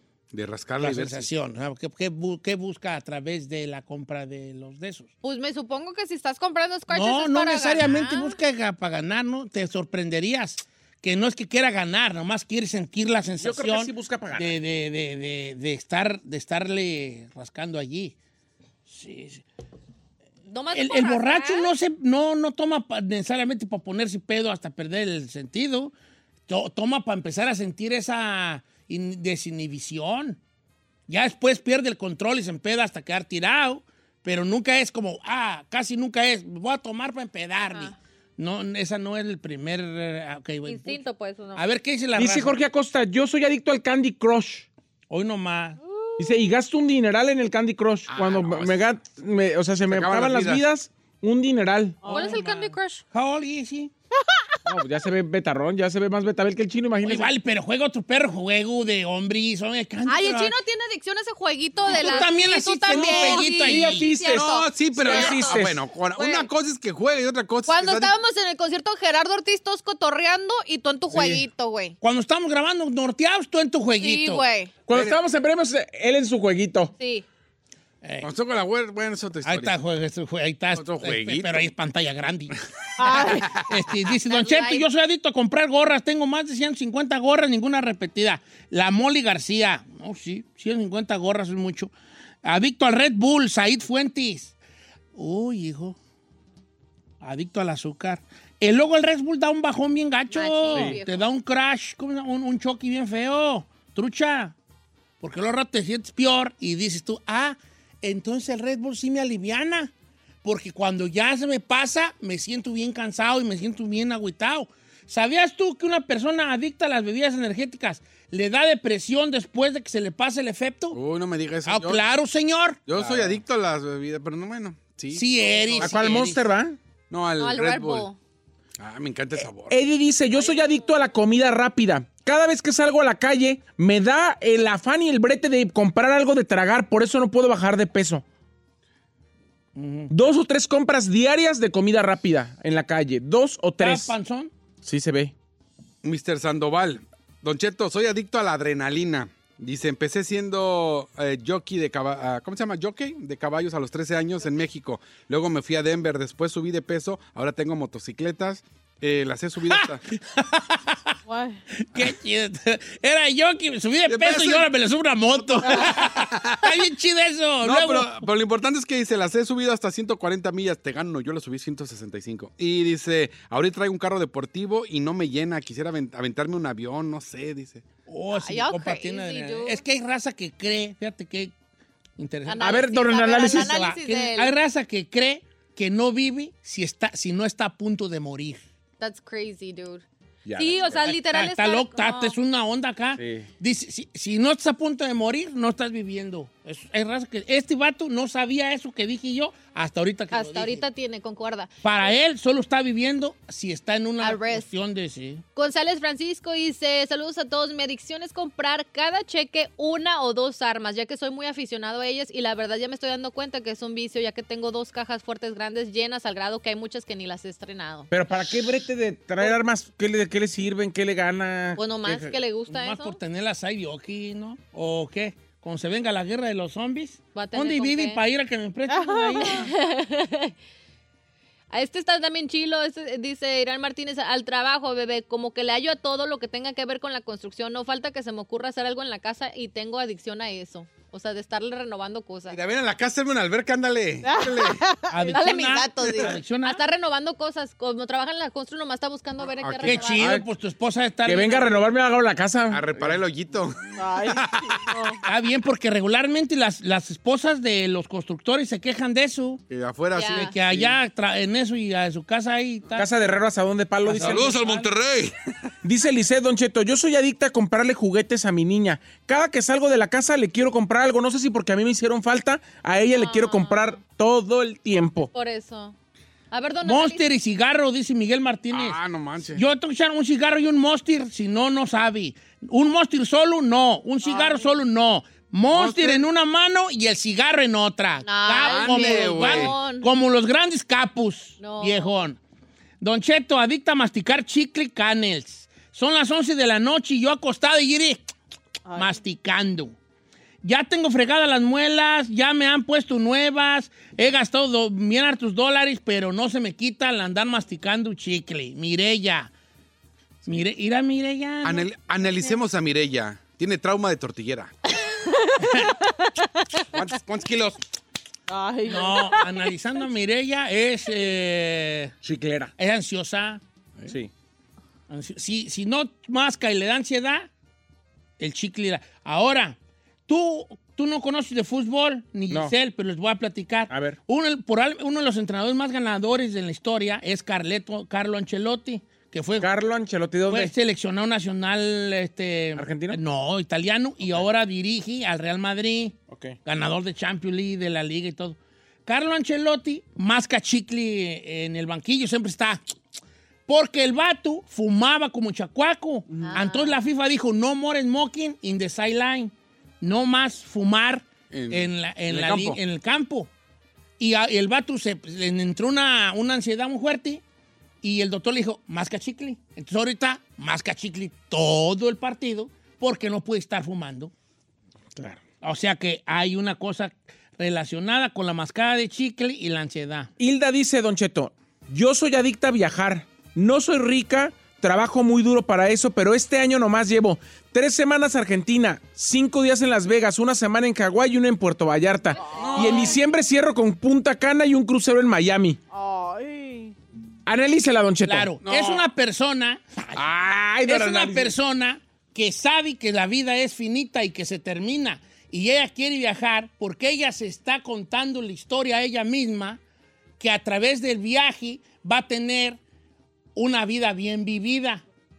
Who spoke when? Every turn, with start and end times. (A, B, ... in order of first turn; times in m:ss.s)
0:00.3-0:01.3 A
0:00.8-0:05.1 B
0:05.2-0:08.4 C
0:06.9-0:18.1 B
0:13.4-0:14.6 D
0:18.9-0:19.4 B
0:20.5-0:21.7 C
0:20.7-0:25.9 B
0:26.5-0:30.4 B
0:31.1-0:41.0 B
0:40.6-0:41.6 C
0:41.5-0:42.6 B
0:42.1-0:44.7 D
0:45.1-0:45.8 B
0:46.2-0:52.0 D
0:48.1-0:48.9 A
0:49.8-0:50.6 A
0:52.0-0:52.7 E
0:52.1-0:53.0 C
0:53.1-0:53.9 B
0:54.6-0:57.3 D
0:57.0-1:00.5 B
1:00.0-1:06.5 C
1:01.8-1:04.1 B
1:02.9-1:05.8 D
1:04.2-1:08.1 A
1:07.6-1:12.0 C
1:11.1-1:11.4 D
1:12.0-1:14.4 B
1:14.0-1:14.7 C
1:14.9-1:16.9 D
1:14.9-1:15.2 A
1:17.0-1:17.2 C
1:18.0-1:18.3 B
1:18.2-1:19.8 A
1:19.4-1:31.9 B
1:20.7-1:21.7 A
1:23.0-1:23.5 E
1:23.3-1:23.7 A
1:24.3-1:24.8 C
1:32.4-1:34.5 B
1:35.1-1:36.0 B
1:37.2-1:44.5 B
1:40.3-1:41.3 C
1:45.2-1:49.9 B
1:50.4-2:01.0 B
2:00.9-2:02.0 A
2:01.6-2:02.9 B
2:02.9-2:06.0 A
2:02.9-2:03.4 D
2:05.1-2:06.4 B
2:05.8-2:06.8 D
2:07.1-2:08.1 A
2:07.4-2:08.2 C
2:08.8-2:09.8 A
2:09.7-2:18.2 D
2:10.4-2:10.9 C
2:19.8-2:20.1 B
2:20.1-2:24.1 D
2:23.8-2:24.5 B
2:24.8-2:25.3 D
2:26.0-2:40.0 A
2:39.7-2:41.2 B
2:41.3-2:41.6 E
2:41.8-2:48.2 B
2:44.1-2:44.7 A
2:45.3-2:46.8 A
2:47.6-2:57.8 A
2:58.1-3:01.5 B
2:58.3-2:59.8 C
3:02.2-3:08.6 B
3:02.4-3:04.6 C
3:02.6-3:03.8 D
3:09.0-3:10.0 C
3:10.4-3:11.0 D
3:10.6-3:12.4 C
3:11.0-3:20.8 B
3:13.2-3:13.5 D
3:20.3-3:22.1 C
3:21.8-3:25.4 B
3:24.2-3:24.7 C
3:25.6-3:38.1 C
3:38.1-3:42.3 D
3:41.8-3:43.2 C
3:42.7-3:49.7 B
3:47.3-3:48.2 C
3:48.9-3:49.6 E
3:49.4-3:50.5 C
3:51.7-4:02.6 C
4:02.5-4:04.8 A
4:04.2-4:06.3 E
4:05.1-4:06.8 B
4:05.3-4:10.3 C
4:09.6-4:10.3 A
4:09.8-4:11.8 B
4:10.2-4:10.5 D
4:11.2-4:13.1 D
4:12.7-4:15.0 A
4:14.0-4:15.2 E
4:15.2-4:19.6 B
4:19.7-4:21.0 A
4:20.1-4:20.5 C
4:20.3-4:23.1 B
4:22.9-4:24.8 D
4:24.0-4:24.9 B
4:24.1-4:25.4 A
4:25.8-4:35.3 D
4:33.1-4:34.0 C
4:35.3-4:35.9 C
4:36.5-4:37.3 C
4:36.8-4:52.4 B
4:38.7-4:39.6 A
4:45.7-4:46.2 A
4:48.2-4:50.1 C
4:48.6-4:49.8 A
4:51.6-4:52.1 C
4:53.0-4:58.3 B
4:58.9-4:59.2 E
4:58.9-4:59.9 B
5:00.6-5:09.5 B
5:10.4-5:11.9 B
5:11.6-5:14.7 A
5:15.6-5:16.0 B
5:16.9-5:17.8 A
5:18.5-5:19.6 E
5:18.8-5:22.1 B
5:22.2-5:22.7 D
5:22.8-5:23.6 B
5:25.1-5:27.5 B
5:28.4-5:29.8 B
5:30.3-5:39.7 B
5:33.9-5:34.2 D
5:39.6-5:40.7 D
5:40.4-5:52.8 B
5:42.8-5:43.2 D
5:46.3-5:46.6 D
5:53.7-6:03.5 B
5:56.4-5:57.0 C
6:01.5-6:02.8 A
6:04.2-6:07.4 B
6:08.0-6:14.3 B
6:15.2-6:15.4 D
6:15.6-6:20.3 B
6:20.4-6:35.8 D
6:32.4-6:33.2 E
6:32.5-6:33.2 A
6:35.9-6:36.9 E
6:37.4-6:38.6 D
6:38.2-6:40.2 B
6:38.6-6:39.0 A
6:40.1-6:41.6 D
6:40.8-6:49.8 B
6:50.4-6:52.8 B
6:53.5-6:55.0 B